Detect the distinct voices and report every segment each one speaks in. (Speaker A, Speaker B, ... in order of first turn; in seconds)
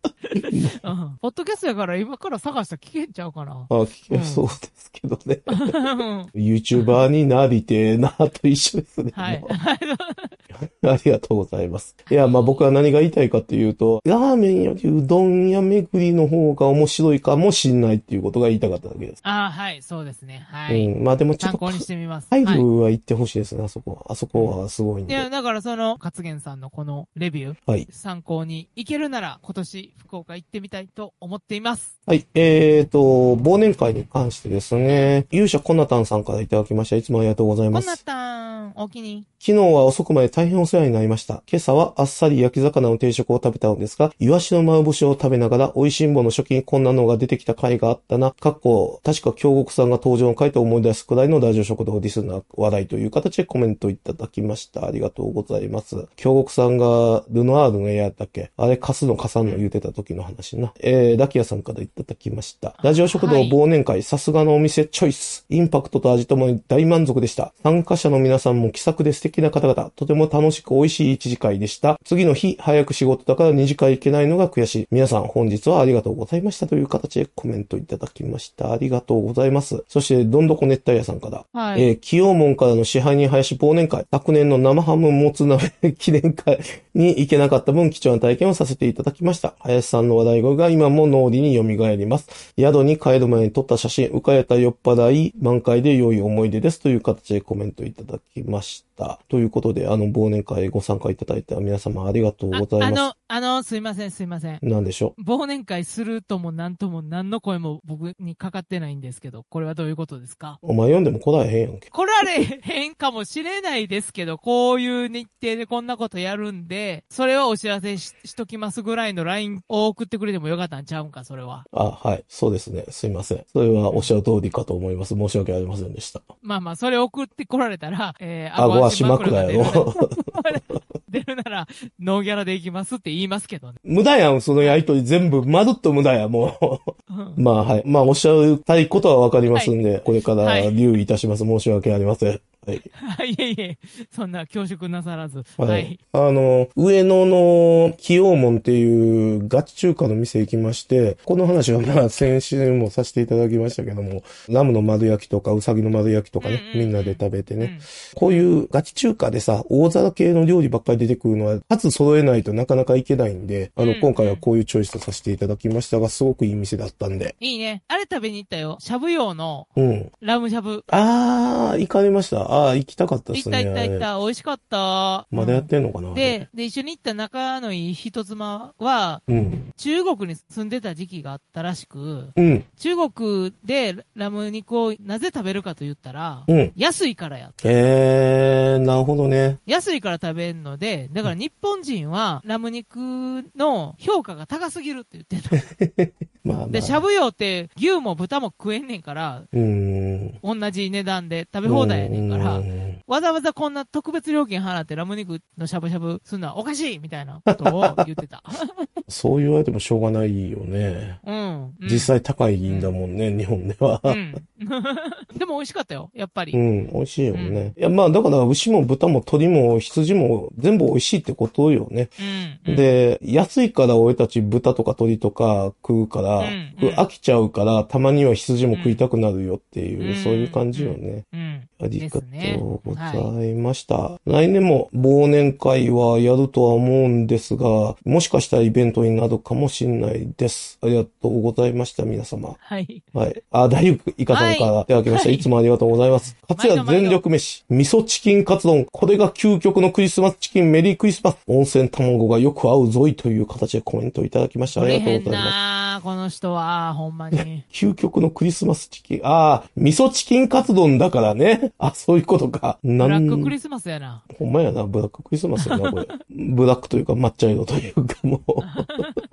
Speaker A: 0.3-4.5, 5.5-7.0, 9.1-10.4, 12.1-12.6, 19.2-22.6, 24.3-31.9, 37.7-39.3, 62.8-63.6, 81.5-81.9, 102.5-104.6, 105.2-110.6, 111.9-121.7, 126.4-133.8, 137.1-137.4, 140.4-140.8, 142.9-146.0, 156.4-158.5, 163.8-164.4, 167.4-170.8, 173.3-187.6, 189.7-195.6, 196.7-199.5, 200.4-208.9, 211.2-212.1, 212.7-212.9, 214.1-216.6, 217.3-217.7, 222.2-222.9, 226.4-227.0, 228.7-229.0, 230.0-233.3, 242.6-243.1, 244.3-245.5, 246.3-247.2, 254.8-257.6, 263.0-264.2, 265.6-266.0, 268.6-269.2
Speaker B: 0.4-0.8, 3.7-5.8, 6.3-9.5, 10.5-19.2, 20.7-25.3, 32.1-38.0, 39.4-103.1, 104.6-105.1, 110.6-111.9, 121.7-126.3, 128.6-130.4, 133.8-142.9, 145.6-167.3, 169.8-170.1, 170.9-174.1, 175.3-176.4, 179.3-179.6, 182.4-182.7, 186.5-186.7, 187.6-189.6, 195.6-197.0, 199.5-200.4, 201.6-203.0, 207.5-208.0, 209.1-211.2, 211.8-214.2, 216.5-231.2, 231.8-242.6, 243.1-255.6, 257.6-263.5, 264.3-269.0